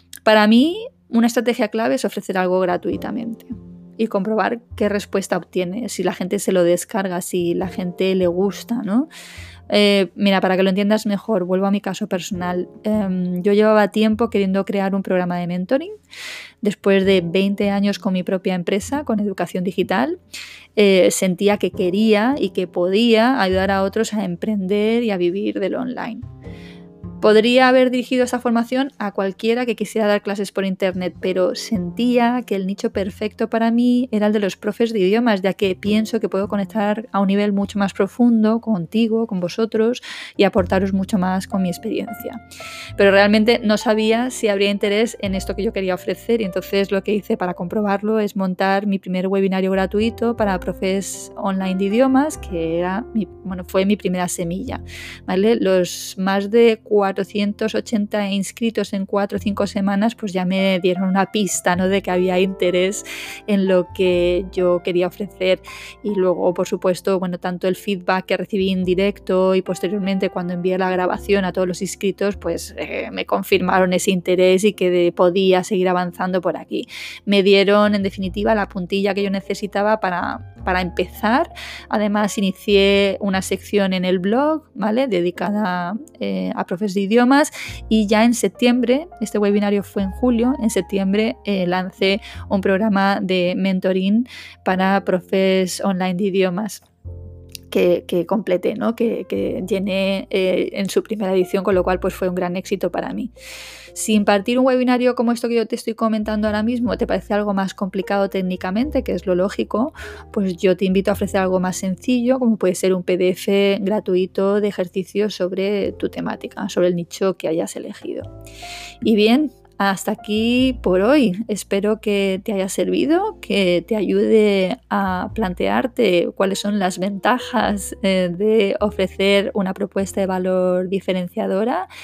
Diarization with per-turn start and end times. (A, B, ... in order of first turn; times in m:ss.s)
0:00.3-0:09.1 A
0:09.7-0:15.9 A
0:16.6-0:20.2 A
0:20.8-0:26.3 A
0:27.2-0:42.4 A
0:43.0-1:36.8 A
1:37.7-1:43.3 A
1:43.9-1:58.3 A
1:59.0-2:11.9 A